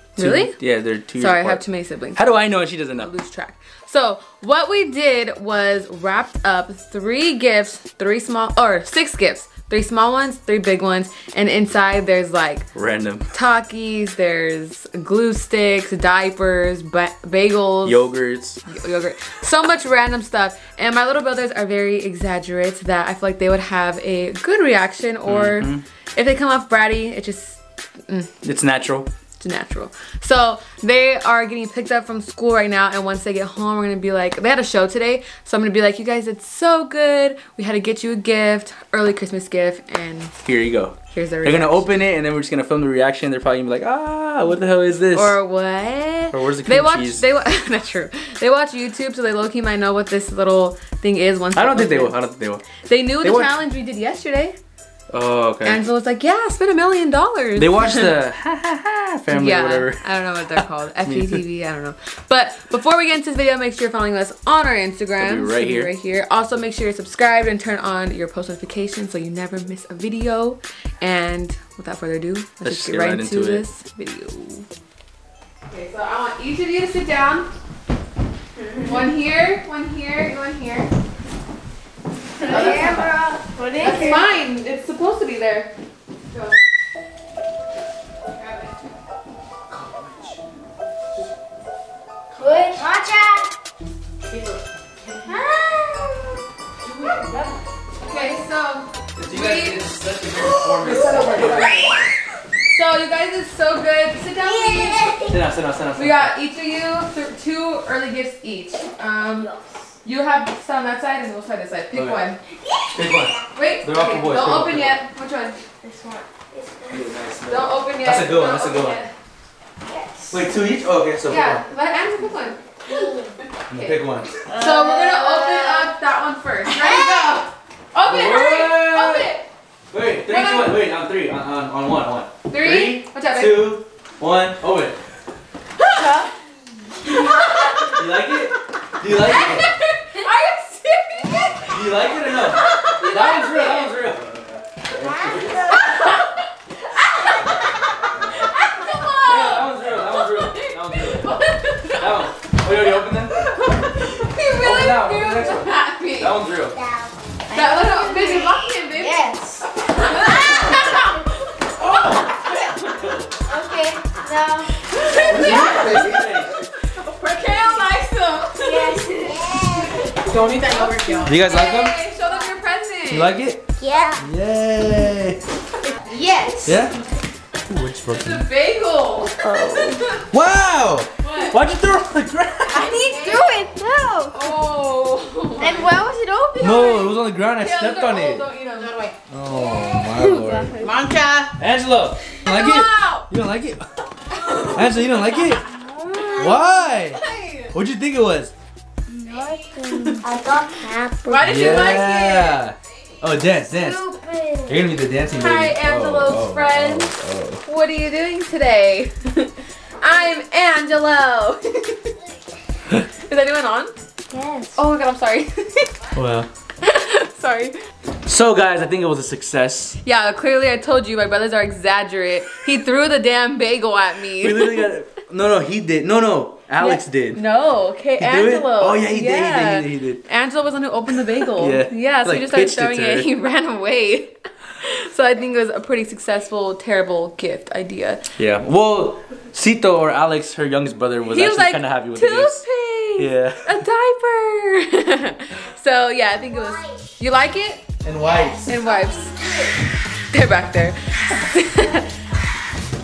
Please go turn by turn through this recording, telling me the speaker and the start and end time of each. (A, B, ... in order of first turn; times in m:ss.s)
0:00.2-0:00.6 A
0:00.2-0:01.6 B
0:01.2-0:12.7 A
0:02.2-0:03.1 B
0:12.8-0:13.3 B
0:13.3-0:18.1 A
0:17.8-0:18.6 B
0:18.7-0:28.3 A
0:25.3-0:25.8 B
0:28.4-0:29.1 B
0:29.4-0:40.4 A
0:40.4-0:45.4 B
0:41.1-0:41.9 A
0:45.1-0:52.2 A
0:46.3-0:47.2 B
0:51.6-0:52.7 B
0:52.8-0:54.6 A
0:53.2-0:53.6 B
0:55.1-0:55.8 B
0:55.6-0:58.1 A
0:57.6-1:01.4 B
0:59.3-1:14.7 A
1:05.2-1:05.9 B
1:12.6-1:13.6 B
1:15.7-1:17.5 A
1:18.6-1:18.8 C
1:18.8-1:20.9 A
1:22.4-1:23.2 A
1:22.4-1:24.2 C
1:23.5-1:24.2 D
1:23.8-1:25.7 A
1:26.3-1:26.6 A
1:28.4-1:28.8 A
1:29.7-1:30.4 B
1:32.3-1:33.5 C
1:35.0-1:35.4 A
1:35.2-1:36.4 C
1:36.9-1:37.1 A
1:38.0-1:39.8 A
1:39.2-1:42.0 B
1:40.8-1:42.0 A
1:41.1-1:41.7 C
1:42.7-1:45.2 A
1:44.4-1:45.4 C
1:45.3-1:46.3 B
1:46.0-1:49.5 A
1:49.4-1:49.8 C
1:50.0-1:52.4 A
1:51.9-1:52.2 B
1:52.6-1:53.4 C
1:52.9-1:55.0 B
1:53.5-1:55.6 A
1:55.8-1:57.1 C
1:56.9-1:59.0 B
1:57.5-1:59.1 A
1:59.8-2:00.4 C
2:00.3-2:01.6 B
2:01.3-2:09.5 A
2:02.9-2:03.4 C
2:03.7-2:04.7 B
2:04.6-2:05.9 C
2:06.7-2:07.4 C
2:08.0-2:09.3 B
2:09.9-2:15.0 B
2:10.2-2:10.8 A
2:12.5-2:13.8 A
2:15.8-2:16.3 A
2:16.0-2:16.3 C
2:17.0-2:18.0 A
2:17.9-2:19.7 B
2:19.2-2:21.8 A
2:21.6-2:25.8 B
2:22.6-2:23.9 A
2:25.0-2:25.8 C
2:25.7-2:26.3 A
2:27.0-2:27.4 A
2:28.2-2:28.5 B
2:28.3-2:32.3 A
2:29.2-2:31.4 B
2:32.0-2:33.4 B
2:33.4-2:36.4 A
2:34.5-2:36.8 B
2:36.8-2:41.1 C
2:37.5-2:43.0 A
2:41.9-2:42.2 B
2:42.9-2:43.3 B
2:43.5-2:46.0 C
2:44.8-2:46.1 A
2:45.3-2:46.5 B
2:46.8-2:49.1 A
2:48.6-2:51.3 C
2:49.0-2:49.5 D
2:49.7-2:53.3 A
2:50.3-2:51.2 D
2:51.2-2:52.0 B
2:53.1-2:55.4 B
2:53.8-2:54.2 C
2:56.1-2:56.8 C
2:56.1-2:56.7 D
2:56.6-2:56.9 B
2:57.7-2:58.4 B
2:58.1-2:59.5 A
2:59.4-3:00.0 C
3:00.3-3:02.9 B
3:01.2-3:01.6 A
3:02.7-3:03.5 A
3:02.7-3:04.4 C
3:02.9-3:03.6 D
3:04.3-3:05.9 A
3:05.6-3:06.0 D
3:05.6-3:07.1 C
3:06.6-3:08.5 B
3:07.6-3:08.9 A
3:08.9-3:09.1 D
3:09.3-3:10.7 B
3:09.7-3:11.0 C
3:10.8-3:11.5 D
3:11.6-3:13.8 B
3:12.5-3:13.3 A
3:14.4-3:15.4 A
3:14.7-3:15.6 B
3:16.0-3:17.7 A
3:16.1-3:16.6 C
3:16.3-3:17.2 B
3:17.7-3:18.5 B
3:19.2-3:21.6 C
3:19.9-3:20.2 A
3:21.3-3:22.7 A
3:21.4-3:24.0 B
3:23.7-3:24.8 C
3:24.7-3:27.6 B
3:25.4-3:27.1 A
3:27.6-3:32.2 A
3:33.0-3:33.9 A
3:34.3-3:34.8 C
3:34.8-3:36.0 A
3:36.1-3:36.5 B
3:36.8-3:37.8 A
3:38.3-3:40.0 B
3:40.0-3:44.9 A
3:44.4-3:47.4 B
3:46.8-3:58.3 A
3:48.2-3:50.2 B
3:51.6-3:53.3 B
3:58.4-4:02.6 B
4:01.3-4:07.9 A
4:03.2-4:03.7 B
4:08.0-4:08.7 B
4:08.2-4:09.7 C
4:08.7-4:09.4 A
4:10.3-4:12.2 A